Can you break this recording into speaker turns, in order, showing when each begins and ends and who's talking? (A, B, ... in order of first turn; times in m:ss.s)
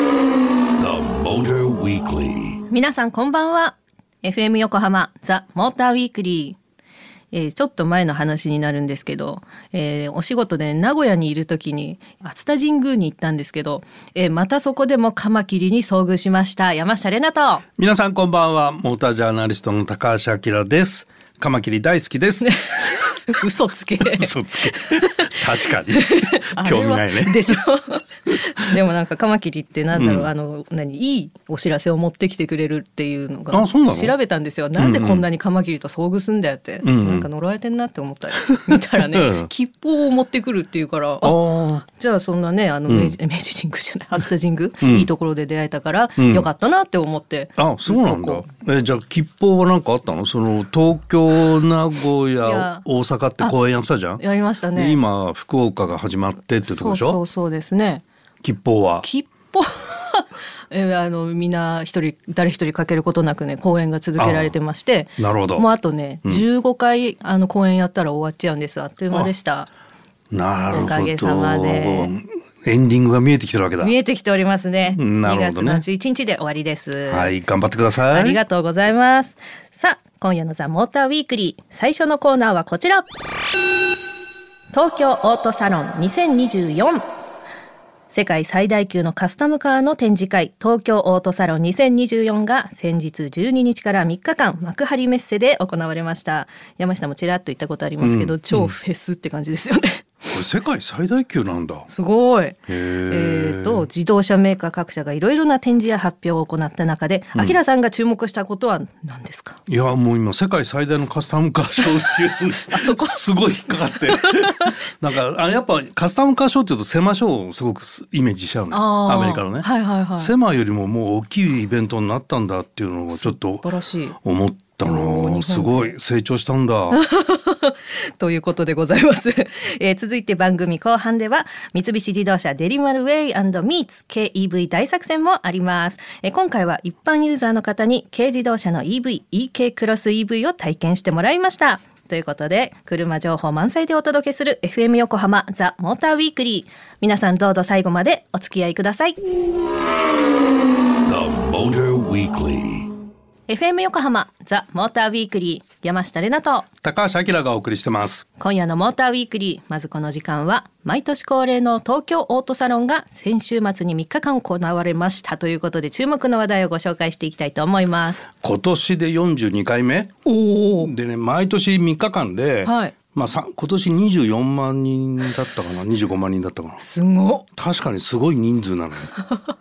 0:00.8-0:02.6 A
0:02.7-0:06.6 B
0:07.3-0:17.6 B
0:17.8-0:22.9 C
0:22.4-0:25.4 B
0:24.0-0:27.4 C
0:25.9-0:48.4 B
0:29.9-0:30.3 C
0:33.5-0:34.2 C
0:34.8-0:35.2 C
0:36.8-0:37.3 C
0:38.7-0:39.5 C
0:41.2-0:41.8 C
0:42.9-0:43.1 C
0:44.8-0:45.1 C
0:46.2-0:46.4 C
0:47.6-0:54.2 C
0:52.4-0:52.8 B
0:54.2-0:55.0 B
0:54.7-0:57.2 C
0:56.6-0:58.0 B
0:58.4-0:59.1 C
0:59.0-1:09.7 B
1:04.2-1:04.6 C
1:05.2-1:05.7 C
1:10.3-1:13.9 C
1:10.7-1:12.1 B
1:13.8-1:17.3 B
1:15.0-1:15.8 C
1:17.1-1:18.4 C
1:18.1-1:23.1 B
1:24.7-1:27.0 B
1:28.1-1:40.2 B
1:38.0-1:38.8 C
1:40.3-1:41.9 C
1:41.9-1:49.6 B
1:42.7-1:43.9 C
1:49.7-2:03.7 C
1:52.7-1:54.8 B
1:58.7-2:00.3 B
2:03.1-2:04.2 B
2:04.2-2:07.0 C
2:04.8-2:05.9 B
2:06.9-2:29.2 B
2:31.0-2:32.9 A
2:33.5-2:36.7 B
2:36.8-2:38.3 C
2:38.4-2:48.3 B
2:48.4-2:50.2 C
2:50.2-2:50.9 B
2:50.8-2:56.8 C
2:52.6-2:53.0 B
2:56.8-2:57.5 B
2:57.6-2:59.1 C